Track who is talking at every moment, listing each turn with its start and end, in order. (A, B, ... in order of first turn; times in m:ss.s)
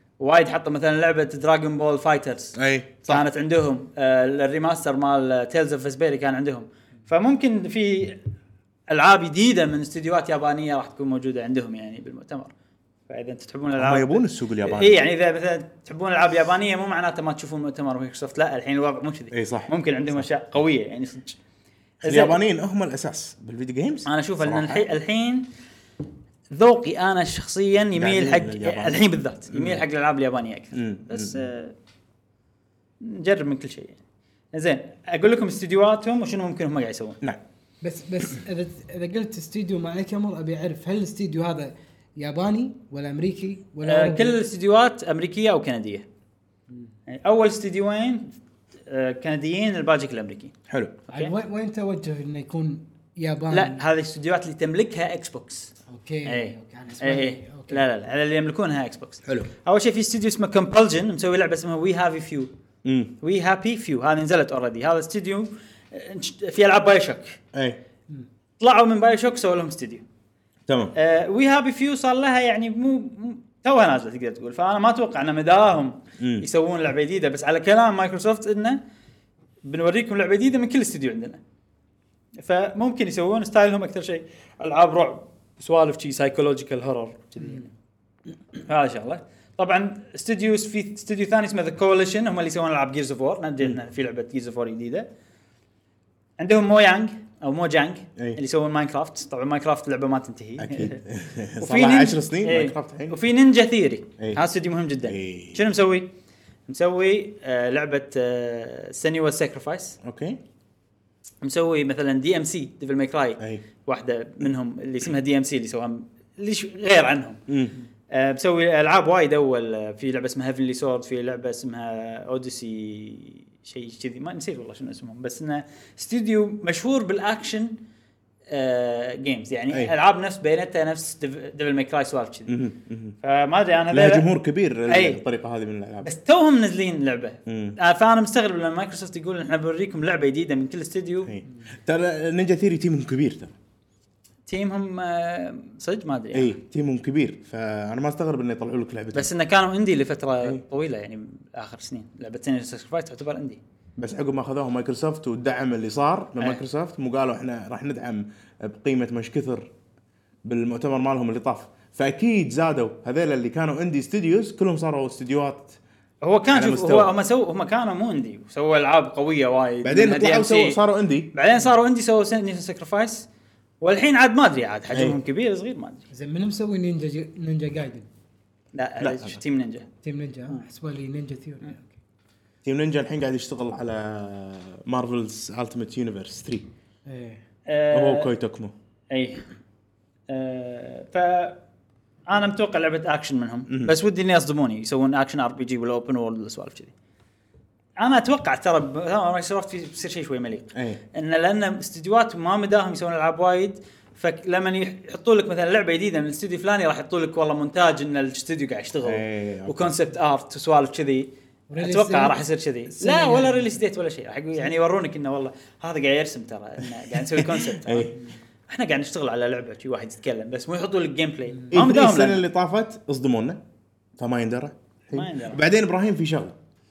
0:00.2-0:08.2 A
0:02.6-0:03.2 B
0:08.9-0:12.5 A
0:13.1-0:21.4 A
0:13.8-0:15.0 B
0:19.3-0:20.2 B
0:22.0-0:24.9 B
0:22.0-0:22.4 A
0:24.0-0:25.5 A
0:26.5-0:31.7 A
0:28.0-0:29.8 B
0:30.7-0:31.4 B
0:33.0-0:34.0 A
0:34.5-0:37.2 A
0:37.8-0:44.4 C
0:43.8-0:46.0 A
0:47.1-0:48.3 A
0:48.9-0:50.5 A
0:50.7-0:51.0 B
0:51.1-0:51.3 A
0:51.1-0:53.8 C
0:53.5-0:55.7 A
0:55.9-0:57.8 C
0:56.2-1:02.5 A
1:02.8-1:03.1 B
1:03.2-1:07.4 A
1:07.5-1:07.8 B
1:08.6-1:10.0 A
1:10.7-1:10.9 B
1:10.9-1:18.8 A
1:16.2-1:16.4 B
1:19.6-1:21.4 A
1:22.4-1:27.7 A
1:28.6-1:35.1 A
1:36.4-1:41.0 A
1:40.6-1:43.2 B
1:41.6-1:46.1 A
1:45.0-1:45.6 B
1:46.7-1:50.0 A
1:50.0-1:50.4 B
1:51.4-1:57.4 A
1:57.5-1:57.8 B
1:58.1-2:07.7 A
2:08.5-2:12.5 A
2:12.5-2:13.2 B
2:13.2-2:14.2 A
2:13.9-2:16.1 B
2:14.9-2:15.2 A
2:16.0-2:21.3 A
2:17.5-2:17.8 B
2:21.3-2:23.5 B
2:24.5-2:26.6 A
2:26.3-2:29.3 B
2:29.1-2:33.6 A
2:34.0-2:39.7 B
2:40.4-2:45.8 B
2:46.2-2:50.8 A
2:46.5-2:47.1 B
2:49.8-2:51.3 B
2:51.3-2:53.3 A
2:53.8-2:56.1 A
2:54.9-2:55.2 B
2:56.1-2:58.1 C
2:58.7-2:59.9 A
2:59.0-2:59.4 B
3:00.0-3:02.0 C
3:02.6-3:06.7 B
3:07.0-3:07.4 C
3:07.7-3:08.3 A
3:07.9-3:08.7 B
3:09.1-3:09.4 A
3:10.3-3:11.6 A
3:12.3-3:16.9 A
3:13.7-3:13.9 B
3:18.0-3:38.1 A
3:20.7-3:21.0 B
3:29.0-3:29.9 B
3:31.7-3:33.7 C
3:37.1-3:38.2 B
3:38.7-3:42.4 A
3:41.7-3:43.6 B
3:44.2-3:46.5 B
3:45.1-3:45.6 A